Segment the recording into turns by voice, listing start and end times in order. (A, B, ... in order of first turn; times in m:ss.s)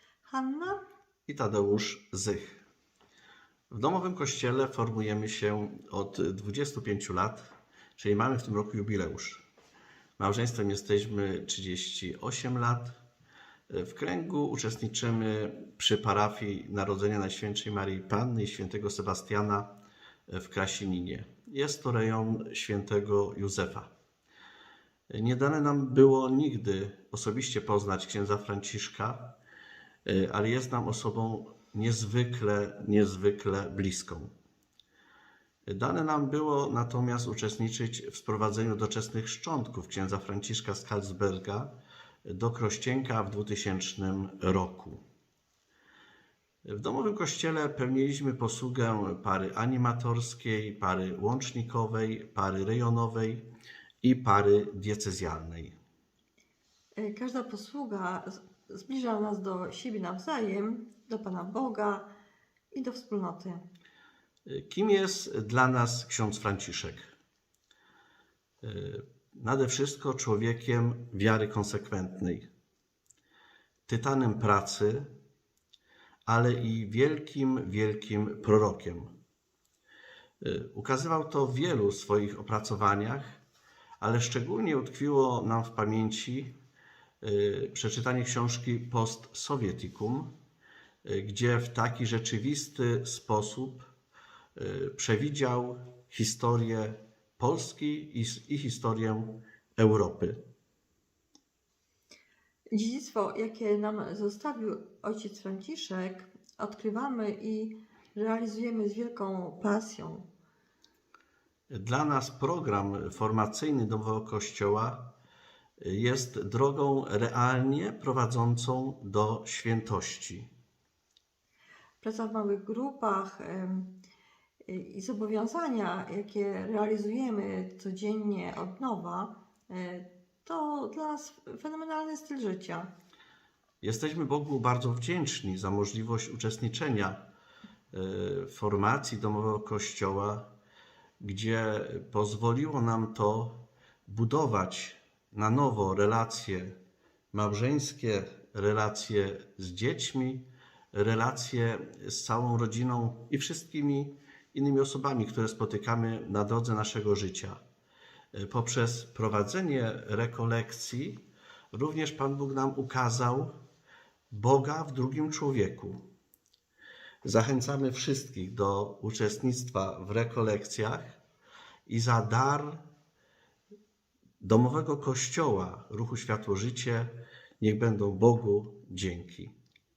0:00.2-0:00.8 A
0:01.3-0:02.6 B
0:03.7-0:09.4 B
0:10.2-0:13.0 B
0:13.7-0:19.7 B
0:20.3-0:23.9 B
0:25.1-0:29.4 B
0:30.0-0:34.3 B
0:35.6-0:41.7 B
0:42.2-0:45.0 B
0:46.6-0:53.5 B
0:54.0-0:55.8 B
0:57.0-1:02.1 A
1:02.7-1:03.7 A
1:04.4-1:07.1 B
1:08.6-1:12.5 B
1:13.9-1:15.1 B
1:16.2-1:19.1 B
1:20.4-1:23.4 B
1:24.0-1:26.5 B
1:27.2-1:30.3 B
1:31.0-1:33.9 B
1:34.6-1:40.4 B
1:42.7-1:50.2 A
1:51.7-1:55.1 B
1:55.8-2:00.5 B
2:02.0-2:04.0 A
2:04.6-2:12.9 A
2:13.8-2:17.2 B
2:17.9-2:20.5 B
2:21.2-2:26.8 B
2:27.3-2:37.6 B
2:38.3-2:41.2 B
2:41.7-2:43.5 B
2:44.3-2:46.0 B
2:47.2-2:51.2 B
2:51.9-2:52.8 B
2:54.4-2:59.5 B